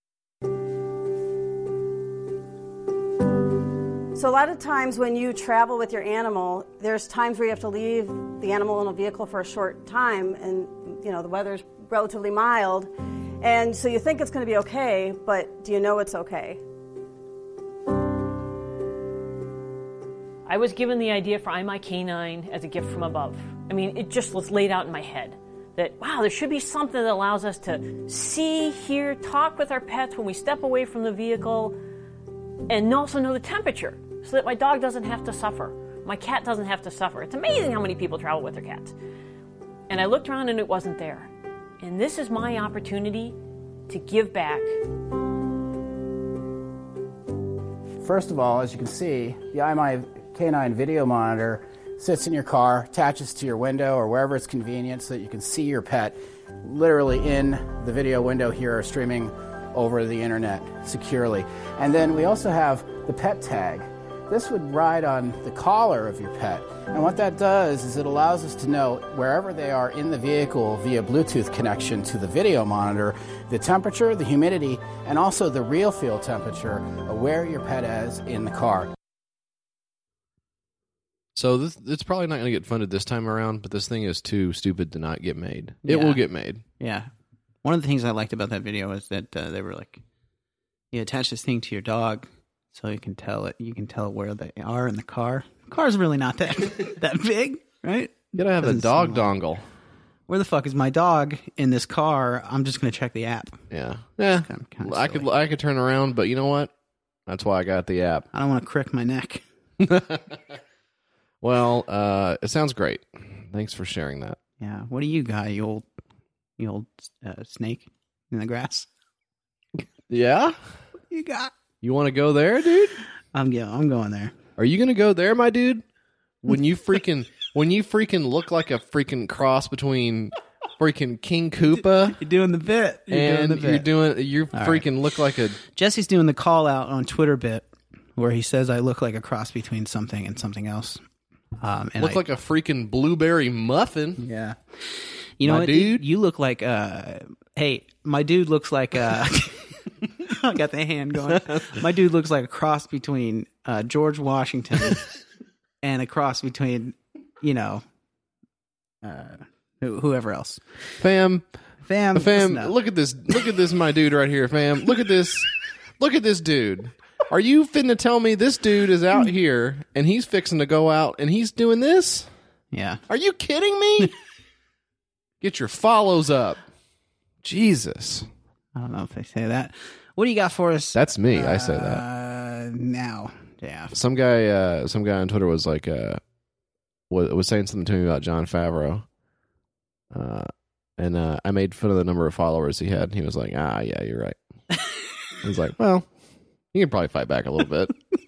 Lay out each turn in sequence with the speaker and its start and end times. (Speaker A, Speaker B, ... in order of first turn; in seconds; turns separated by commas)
Speaker A: 4.2-16.6, Speaker B: 20.5-31.8, Speaker B: 32.7-38.9, Speaker B: 39.9-41.3, Speaker B: 41.8-43.4, Speaker B: 43.9-44.7, Speaker C: 48.0-78.9, Speaker D: 81.3-86.6, Speaker E: 85.9-86.2, Speaker E: 86.8-87.1, Speaker E: 87.6-90.0, Speaker E: 90.9-99.3, Speaker D: 98.3-99.7, Speaker E: 100.3-103.6, Speaker D: 103.7-106.7, Speaker E: 104.4-105.3, Speaker D: 107.3-108.3, Speaker E: 108.3-109.4, Speaker D: 109.8-110.4, Speaker D: 111.4-114.4, Speaker E: 114.6-115.8, Speaker E: 116.6-118.9, Speaker D: 120.1-120.6, Speaker E: 121.1-121.5, Speaker D: 121.8-123.0, Speaker E: 123.3-124.4, Speaker D: 124.6-125.8, Speaker D: 126.4-132.2, Speaker E: 132.1-133.9, Speaker D: 133.1-135.6, Speaker E: 134.5-134.9, Speaker E: 135.6-141.0, Speaker E: 141.6-142.2, Speaker D: 142.0-144.2, Speaker E: 144.2-155.1, Speaker D: 145.4-146.0, Speaker E: 155.8-157.8, Speaker E: 159.0-160.6, Speaker D: 161.0-161.5, Speaker E: 161.8-162.8, Speaker D: 162.1-172.3, Speaker E: 172.7-173.0, Speaker D: 173.1-174.2, Speaker D: 175.4-176.6, Speaker D: 177.4-178.3, Speaker E: 178.8-184.0, Speaker D: 180.9-182.0, Speaker D: 183.9-186.2, Speaker D: 187.1-189.1, Speaker D: 190.1-194.4, Speaker D: 195.4-196.1, Speaker D: 196.7-198.0